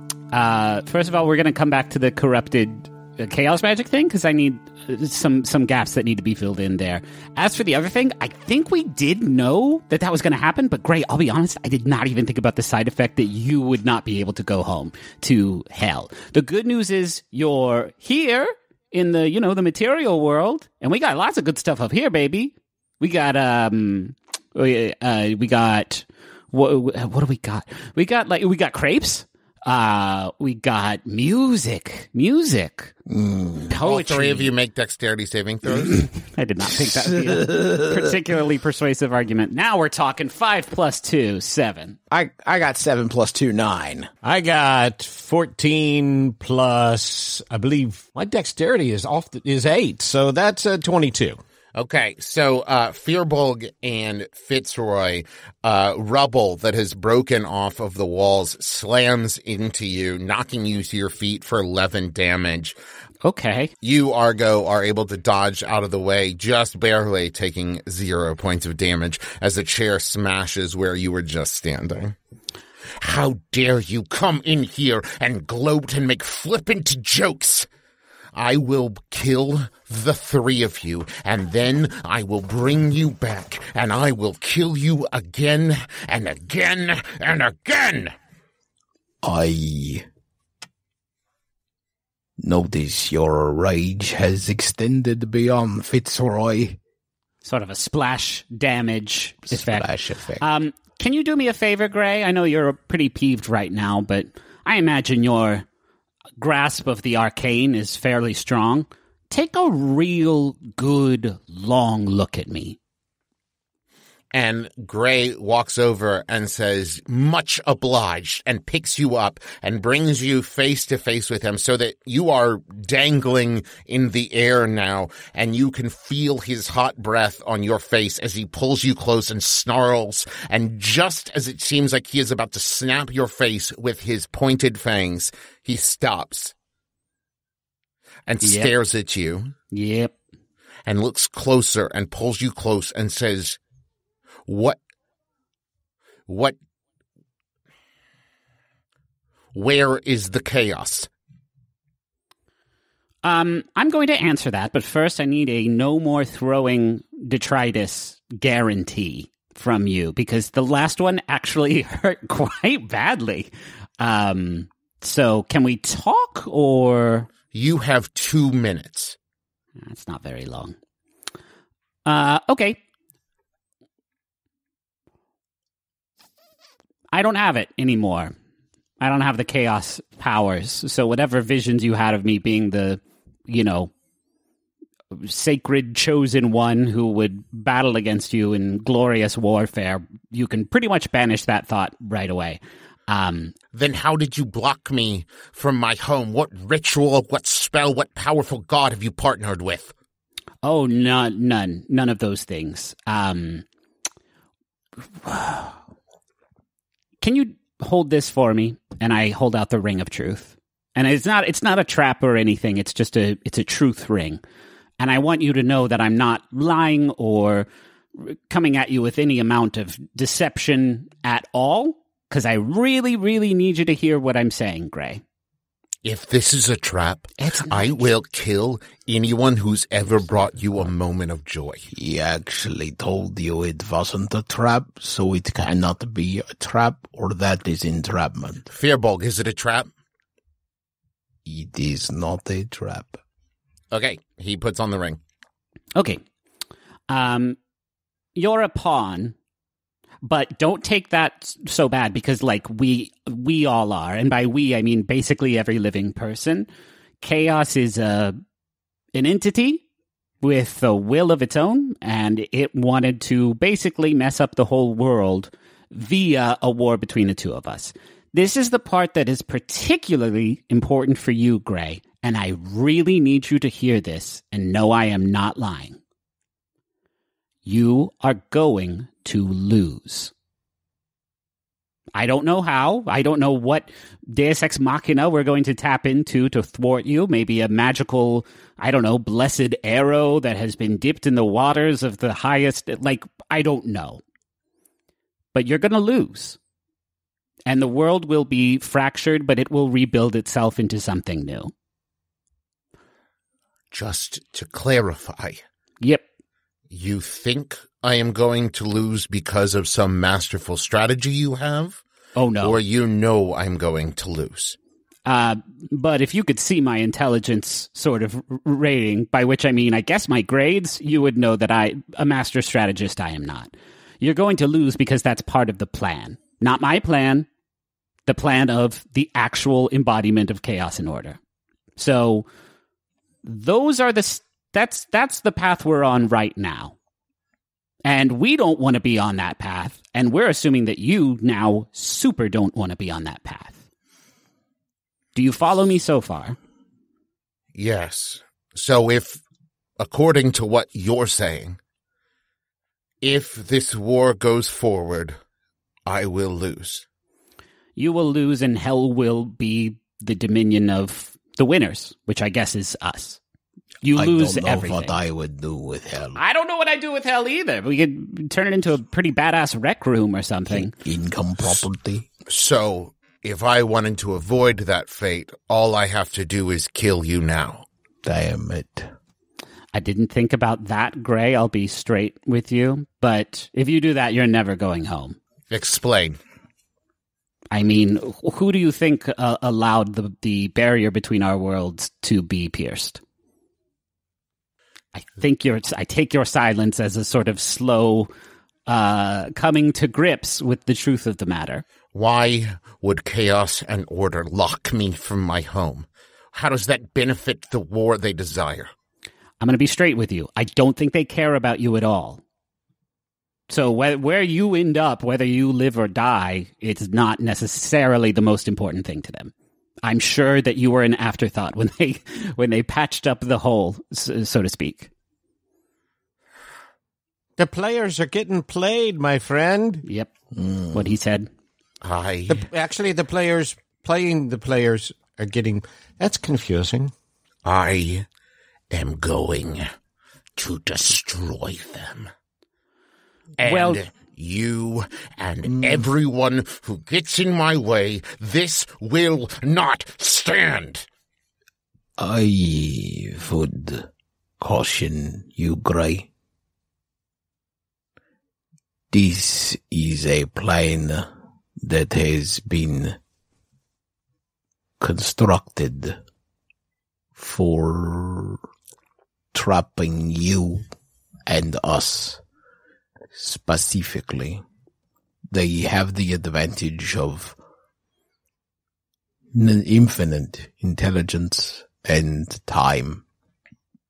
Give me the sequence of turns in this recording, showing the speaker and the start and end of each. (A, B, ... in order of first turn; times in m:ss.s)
0:00.3-0:32.9 A
0:33.1-0:33.8 B
0:33.7-0:34.5 A
0:33.8-0:36.1 C
0:35.9-0:42.0 A
0:42.1-0:44.1 B
0:44.2-0:51.4 D
0:51.8-1:02.8 C
1:03.2-1:03.7 A
1:03.8-1:12.2 C
1:13.0-1:17.7 C
1:18.4-1:28.1 C
1:29.2-1:30.0 B
1:32.4-1:36.8 B
1:37.4-1:39.9 A
1:39.5-1:40.4 B
1:40.4-1:45.6 A
1:46.4-1:52.8 A
1:54.3-2:16.6 C
2:18.3-2:19.5 C
2:18.4-2:18.8 A
2:19.7-2:20.1 A
2:20.9-2:23.6 C
2:24.5-2:24.8 C
2:26.3-2:26.6 C
2:29.6-2:31.1 C
2:33.2-2:47.3 A
2:47.5-2:49.2 C
2:49.8-2:50.8 A
2:52.1-2:52.8 A
2:57.1-2:58.3 A
2:59.0-3:03.9 A
3:05.1-3:13.5 A
3:13.7-3:19.9 C
3:20.6-3:23.6 A
3:25.2-3:25.8 A
3:27.2-3:34.4 A
3:35.0-3:45.2 A
3:46.0-3:51.9 C
3:47.4-3:48.1 A
3:51.9-3:58.7 B
3:58.7-3:59.9 C
4:01.4-4:03.2 B
4:03.9-4:05.2 C
4:06.0-4:06.2 A
4:07.1-4:07.6 A
4:08.4-4:09.4 A
4:10.2-4:16.7 A
4:17.2-4:18.4 A
4:19.2-4:19.8 A
4:20.4-4:36.0 A
4:37.6-4:40.3 A
4:42.2-4:54.2 A
4:55.5-4:56.6 A
4:57.7-5:01.7 A
5:03.9-5:05.6 C
5:06.9-5:12.0 C
5:12.4-5:12.8 A
5:12.6-5:14.8 C
5:15.2-5:27.5 A
5:28.3-5:31.4 A
5:32.0-5:32.5 A
5:33.4-5:37.0 A
5:38.0-5:43.8 A
5:45.4-5:46.6 A
5:47.8-5:49.4 C
5:50.0-5:51.8 C
5:53.2-5:55.4 C
5:56.1-5:57.0 C
5:58.0-6:03.4 A
6:04.0-6:05.2 A
6:04.1-6:06.4 B
6:06.4-6:10.9 A
6:10.7-6:12.3 B
6:12.5-6:17.9 C
6:18.2-6:19.1 B
6:19.9-6:25.4 A
6:25.7-6:26.4 C
6:27.7-6:33.2 A
6:35.1-6:38.3 A
6:38.9-6:41.8 A
6:42.1-6:48.9 C
6:49.6-6:52.4 A
6:53.7-6:59.5 A
7:00.0-7:05.1 A
7:07.6-7:10.0 D
7:10.0-7:10.3 A
7:10.6-7:11.1 B
7:10.9-7:11.5 A
7:12.0-7:12.6 C
7:12.5-7:17.1 D
7:17.6-7:18.3 C
7:18.9-7:19.8 C
7:20.6-7:22.3 C
7:23.6-7:31.1 C
7:23.6-7:24.0 A
7:25.8-7:26.1 B
7:32.2-7:34.1 B
7:34.6-7:36.3 B
7:39.1-7:41.3 B
7:41.8-7:43.2 B
7:45.0-7:46.2 B
7:47.4-7:48.6 B
7:49.5-7:50.8 B
7:51.5-7:52.4 B
7:53.3-7:54.6 B
7:55.5-7:57.6 B
7:59.5-8:03.2 B